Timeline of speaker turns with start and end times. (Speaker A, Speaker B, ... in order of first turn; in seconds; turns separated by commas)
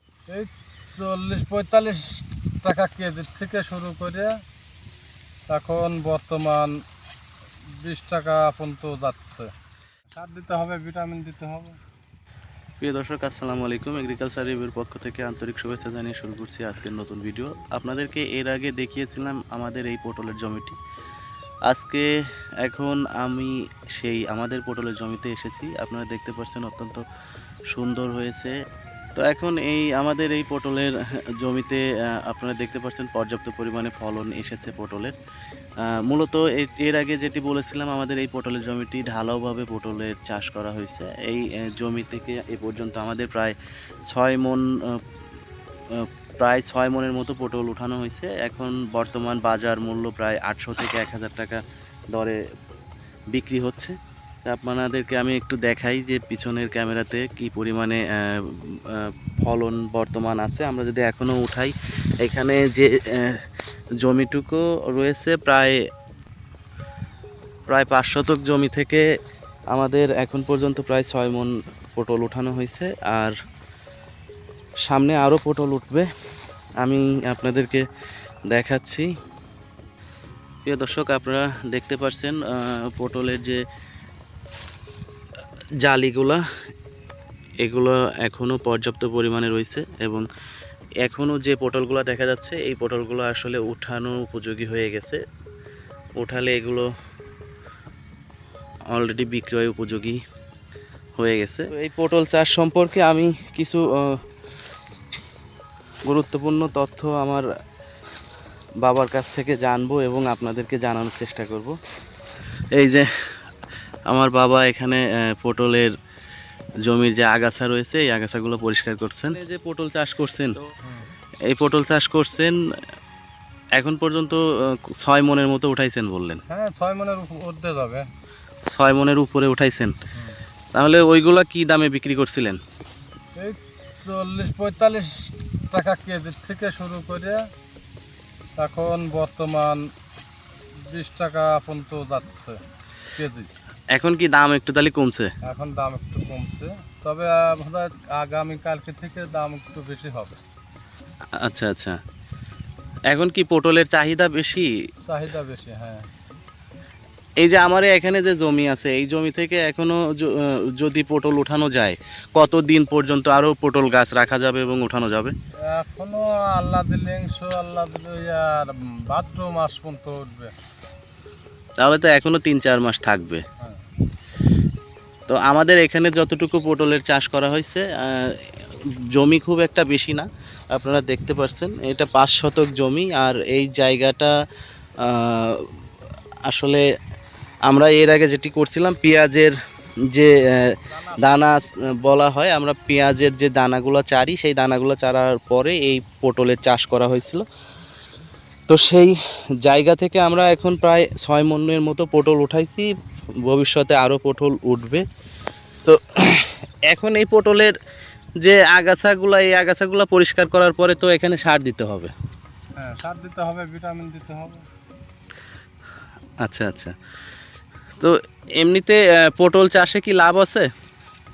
Speaker A: 0.3-4.3, Speaker A: 5.5-6.7, Speaker A: 7.8-9.5, Speaker A: 10.1-11.8, Speaker B: 12.8-20.8, Speaker B: 21.7-22.1, Speaker B: 22.6-27.0, Speaker B: 27.7-28.5, Speaker B: 29.1-35.1, Speaker B: 35.8-43.5, Speaker B: 44.1-45.0, Speaker B: 45.9-51.6, Speaker B: 52.1-52.4, Speaker B: 53.3-54.0, Speaker B: 54.5-63.4, Speaker B: 64.0-65.8, Speaker B: 67.7-69.0, Speaker B: 69.7-73.4, Speaker B: 74.9-76.1, Speaker B: 76.8-77.8, Speaker B: 78.5-79.1, Speaker B: 80.7-83.6, Speaker B: 85.8-86.4, Speaker B: 87.6-90.2, Speaker B: 91.0-95.2, Speaker B: 96.2-96.9, Speaker B: 98.9-100.2, Speaker B: 101.2-104.2, Speaker B: 106.1-107.5, Speaker B: 108.8-111.8, Speaker B: 112.7-113.1, Speaker B: 114.1-115.9, Speaker B: 116.8-120.6, Speaker A: 120.8-121.1, Speaker B: 121.5-122.6, Speaker B: 123.8-126.4, Speaker A: 126.5-128.1, Speaker B: 128.7-129.9, Speaker B: 130.7-132.6, Speaker A: 133.4-137.4, Speaker A: 138.6-139.8, Speaker A: 140.9-142.6, Speaker A: 143.2-143.5, Speaker B: 143.9-145.3, Speaker A: 145.4-150.4, Speaker B: 151.4-152.0, Speaker B: 153.1-154.7, Speaker A: 155.0-156.1, Speaker B: 157.4-165.3, Speaker A: 165.7-170.5, Speaker B: 171.8-173.4, Speaker A: 173.6-173.8, Speaker B: 175.3-184.3, Speaker B: 185.0-185.7, Speaker B: 186.5-186.8, Speaker B: 187.7-189.6, Speaker B: 190.1-197.4, Speaker A: 190.9-191.6, Speaker B: 198.7-202.9, Speaker B: 203.4-205.0, Speaker B: 205.8-207.7, Speaker B: 208.4-212.1, Speaker A: 212.8-214.7, Speaker B: 216.4-216.9, Speaker B: 218.0-220.7